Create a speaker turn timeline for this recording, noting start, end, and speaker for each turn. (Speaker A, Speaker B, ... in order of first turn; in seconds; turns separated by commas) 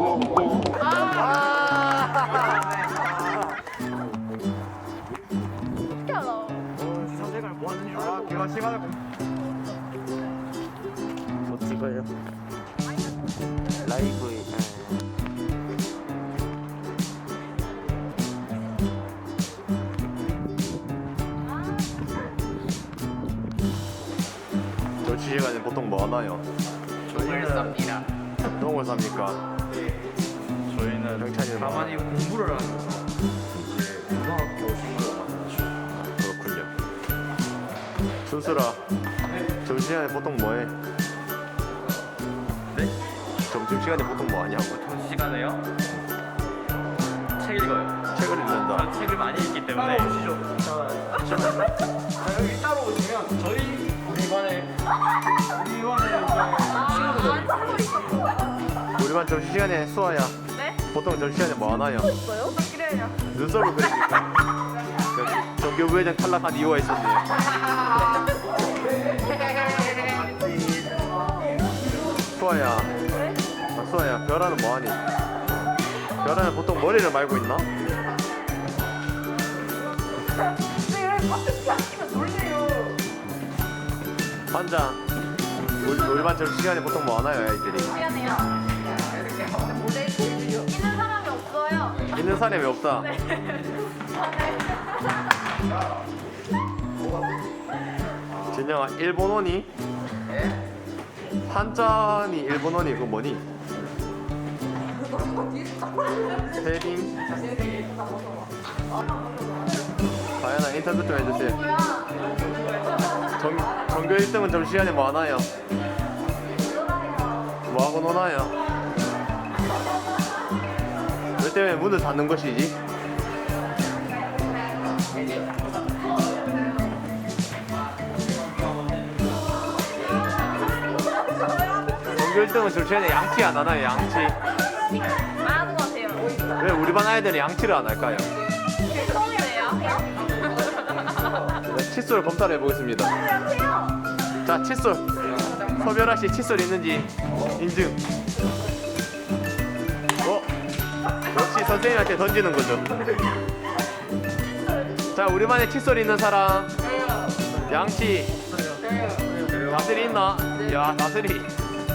Speaker A: 0.9-1.3, Speaker B: 1.2-2.1, Speaker A: 6.0-6.7, Speaker C: 6.9-8.6, Speaker B: 8.0-8.9, Speaker C: 11.5-12.1, Speaker C: 13.9-14.8, Speaker B: 25.0-26.4, Speaker C: 27.1-28.1, Speaker B: 28.6-29.4, Speaker C: 30.7-33.0, Speaker B: 31.1-32.1, Speaker B: 33.6-34.0, Speaker C: 34.1-35.7, Speaker B: 36.0-36.7, Speaker B: 38.3-38.8, Speaker B: 39.6-40.7, Speaker B: 43.5-44.8, Speaker C: 44.8-45.6, Speaker C: 47.4-47.9, Speaker B: 48.1-48.9, Speaker C: 48.8-54.7, Speaker C: 55.5-57.9, Speaker A: 56.6-58.4, Speaker B: 59.0-60.4, Speaker A: 60.5-60.8, Speaker B: 60.9-62.1, Speaker A: 62.0-63.2, Speaker B: 63.3-64.3, Speaker B: 65.1-67.3, Speaker A: 69.3-70.5, Speaker B: 72.4-72.9, Speaker A: 73.1-73.4, Speaker B: 73.8-75.0, Speaker B: 76.2-77.7, Speaker A: 80.9-83.0, Speaker B: 84.5-85.0, Speaker B: 85.8-88.0, Speaker A: 87.9-88.5, Speaker A: 89.6-92.0, Speaker B: 92.1-93.2, Speaker A: 93.3-94.6, Speaker B: 98.5-99.7, Speaker B: 101.5-103.4, Speaker B: 106.5-107.2, Speaker B: 110.4-111.8, Speaker A: 111.8-112.1, Speaker B: 113.3-115.5, Speaker B: 117.7-118.5, Speaker B: 121.4-122.8, Speaker B: 132.1-134.4, Speaker A: 135.2-136.6, Speaker B: 136.6-138.3, Speaker A: 138.8-141.3, Speaker B: 141.6-143.2, Speaker A: 143.3-143.9, Speaker B: 144.4-148.0, Speaker B: 150.2-150.5, Speaker B: 151.3-152.9, Speaker B: 155.1-156.7, Speaker B: 157.7-158.3, Speaker A: 158.9-159.3, Speaker B: 159.6-161.5